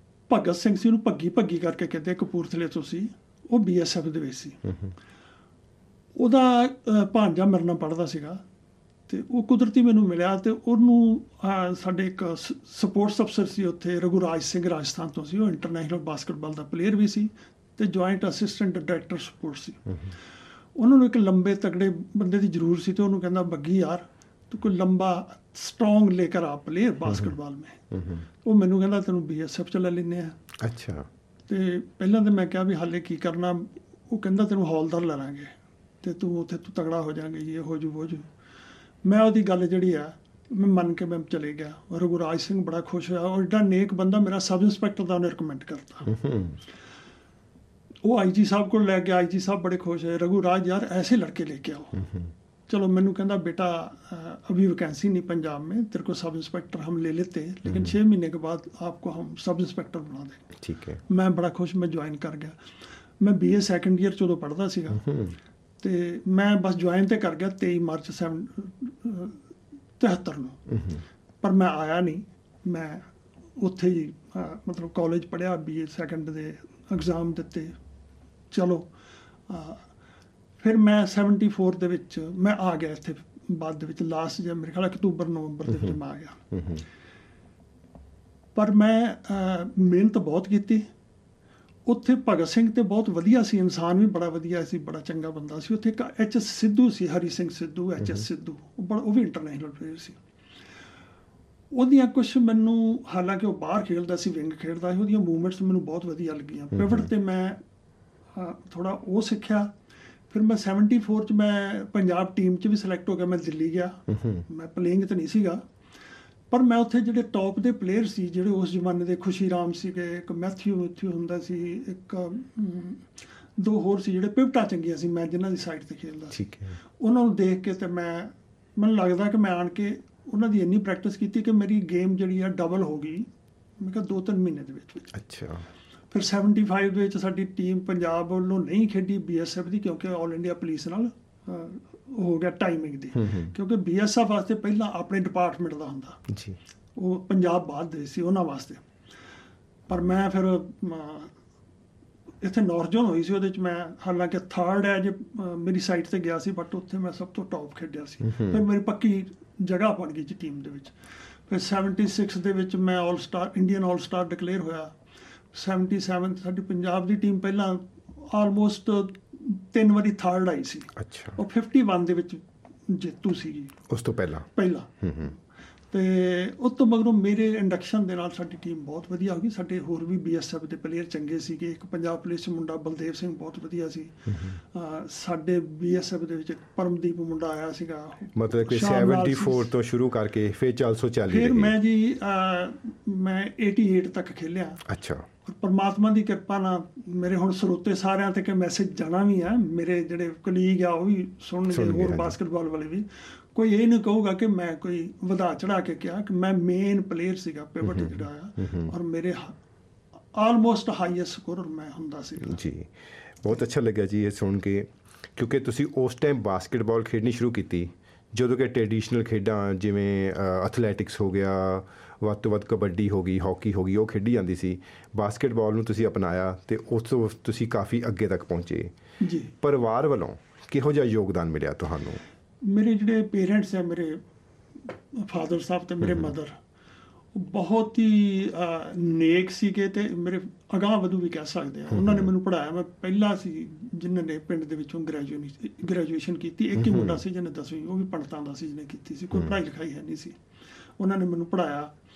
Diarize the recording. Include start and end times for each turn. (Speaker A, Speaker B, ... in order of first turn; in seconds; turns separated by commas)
Speaker A: 0.3-4.7, Speaker A: 6.2-8.4, Speaker A: 9.1-19.9, Speaker A: 20.8-27.9, Speaker B: 27.9-28.2, Speaker A: 28.4-30.4, Speaker B: 30.6-31.1, Speaker A: 31.5-38.3, Speaker A: 39.0-46.1, Speaker B: 46.1-46.6, Speaker A: 48.0-52.1, Speaker A: 52.7-60.5, Speaker B: 57.7-57.9, Speaker B: 60.6-61.0, Speaker A: 61.1-62.5, Speaker A: 63.2-65.1, Speaker B: 65.0-65.3, Speaker A: 65.8-69.4, Speaker A: 70.0-70.6, Speaker B: 70.7-71.0, Speaker A: 71.4-73.1, Speaker A: 73.6-77.7, Speaker A: 78.5-78.9, Speaker A: 79.5-79.8, Speaker A: 80.6-86.5, Speaker B: 86.5-86.8, Speaker A: 88.5-90.9, Speaker A: 91.8-100.2, Speaker A: 101.7-107.6, Speaker B: 106.8-107.1, Speaker A: 108.3-109.7, Speaker A: 110.3-115.6, Speaker B: 114.1-114.4, Speaker A: 116.5-123.0, Speaker A: 123.6-126.4, Speaker B: 126.3-126.8, Speaker A: 127.0-133.3, Speaker A: 133.8-135.1, Speaker B: 135.1-135.7, Speaker A: 136.1-146.2, Speaker B: 143.2-143.5, Speaker B: 146.3-146.6, Speaker A: 146.9-148.8, Speaker A: 149.9-151.3, Speaker A: 152.4-160.9, Speaker B: 158.3-158.6, Speaker A: 161.5-164.9, Speaker A: 165.5-173.8, Speaker B: 171.0-171.3, Speaker B: 173.9-174.5, Speaker A: 174.5-175.3, Speaker B: 175.0-175.3, Speaker A: 175.9-189.7, Speaker B: 184.3-184.6, Speaker B: 188.3-191.7, Speaker A: 191.3-194.8, Speaker B: 194.8-195.3, Speaker A: 195.4-209.6, Speaker B: 201.7-202.3, Speaker B: 207.8-208.9, Speaker A: 210.3-212.6, Speaker B: 212.4-228.9, Speaker A: 229.2-229.5, Speaker B: 229.6-232.2, Speaker A: 232.6-234.2, Speaker A: 234.9-236.5, Speaker A: 237.3-250.4, Speaker B: 241.9-242.3, Speaker B: 246.8-247.2, Speaker A: 251.0-251.9